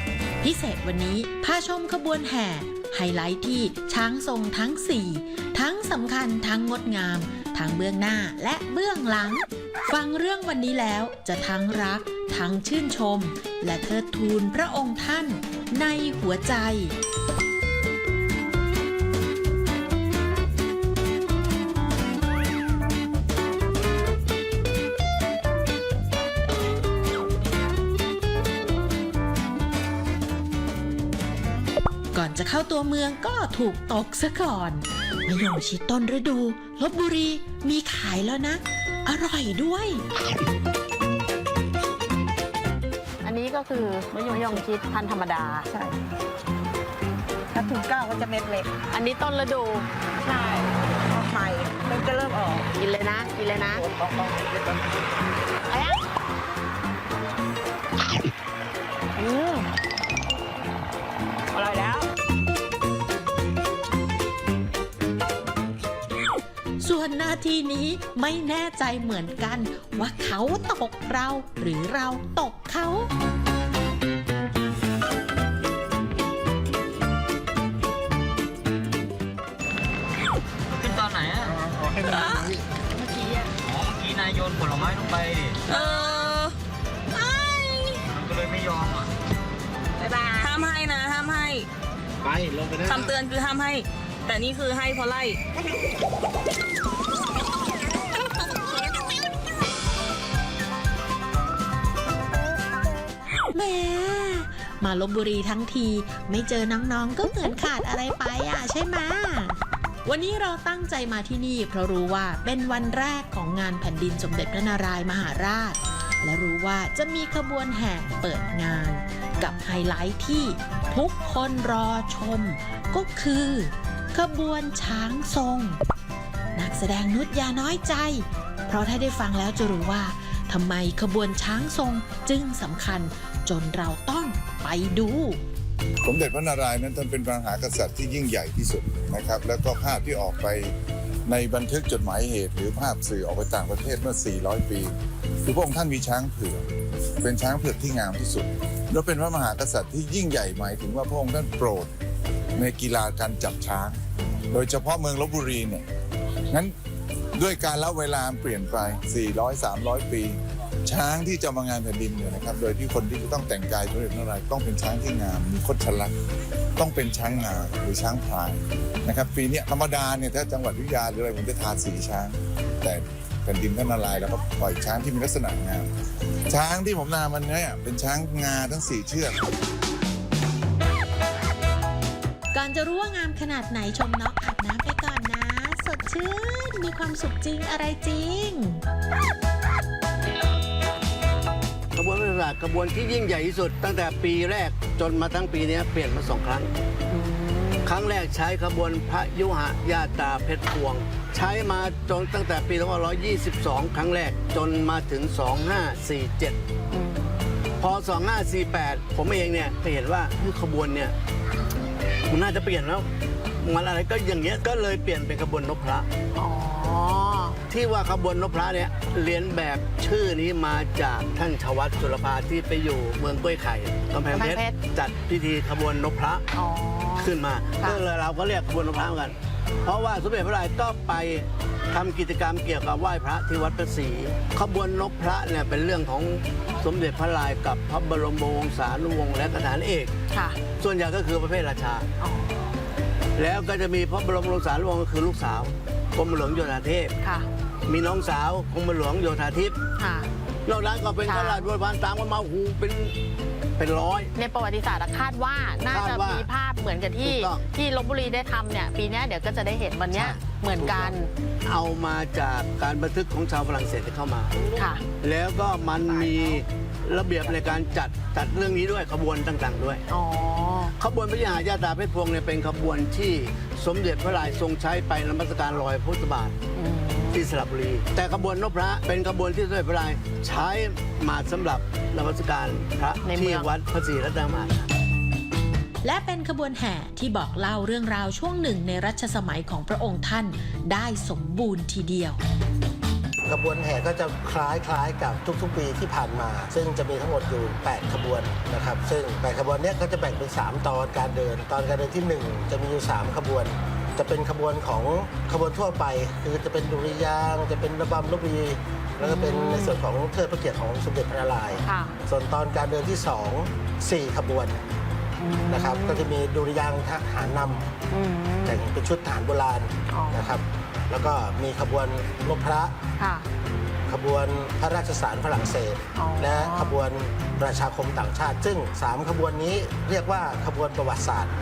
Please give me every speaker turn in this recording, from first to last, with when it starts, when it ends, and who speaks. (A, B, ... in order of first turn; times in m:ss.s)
0:00.4-0:17.0 A
0:32.1-0:40.0 A
0:43.2-0:45.7 B
0:44.2-0:44.6 C
0:47.5-0:48.5 C
0:48.9-0:49.9 B
0:51.7-0:52.6 C
0:52.7-0:53.9 B
0:53.8-0:54.6 C
0:55.7-0:56.0 B
0:59.2-0:59.6 B
1:06.8-1:13.1 A
1:20.8-1:21.6 D
1:22.0-1:22.5 E
1:23.6-1:25.6 D
1:25.7-1:26.6 E
1:28.0-1:29.1 D
1:30.1-1:30.5 C
1:30.3-1:31.7 E
1:32.8-1:35.4 E
1:43.5-2:05.8 A
2:06.6-2:15.4 A
2:16.0-2:20.8 F
2:21.2-2:26.7 F
2:27.2-2:31.9 F
2:32.6-2:35.8 F
2:37.3-2:46.1 F
2:46.8-2:55.9 F
2:56.5-2:59.5 F
3:02.5-3:08.8 A
3:11.9-3:16.7 G
3:17.1-3:17.9 B
3:17.8-3:26.6 G
3:26.9-3:27.4 B
3:27.8-3:31.2 G
3:32.3-3:33.1 G
3:33.6-3:36.1 G
3:36.3-3:37.6 B
3:37.7-3:46.5 G
3:44.3-3:44.8 B
3:46.5-3:48.0 B
3:47.2-4:00.1 G
4:00.3-4:00.6 B
4:00.8-4:02.1 G
4:02.2-4:02.5 B
4:03.4-4:07.2 G
4:07.2-4:07.5 B
4:07.9-4:09.8 G
4:10.0-4:10.3 B
4:10.6-4:13.1 G
4:11.2-4:11.7 B
4:13.8-4:14.3 G
4:14.4-4:21.3 B
4:15.9-4:16.5 G
4:17.2-4:17.6 G
4:20.1-4:30.1 G
4:24.8-4:25.0 B
4:30.1-4:30.9 B
4:31.0-4:36.6 G
4:36.8-4:37.5 B
4:37.3-4:44.9 G
4:43.2-4:43.7 B
4:46.0-4:52.4 A
4:53.4-5:14.8 H
5:09.2-5:10.0 B
5:11.8-5:12.2 B
5:15.4-5:16.3 B
5:15.7-5:18.0 H
5:18.1-5:18.8 B
5:18.6-5:23.0 H
5:20.1-5:20.5 B
5:23.2-5:23.4 B
5:24.1-5:31.5 H
5:26.2-5:27.0 B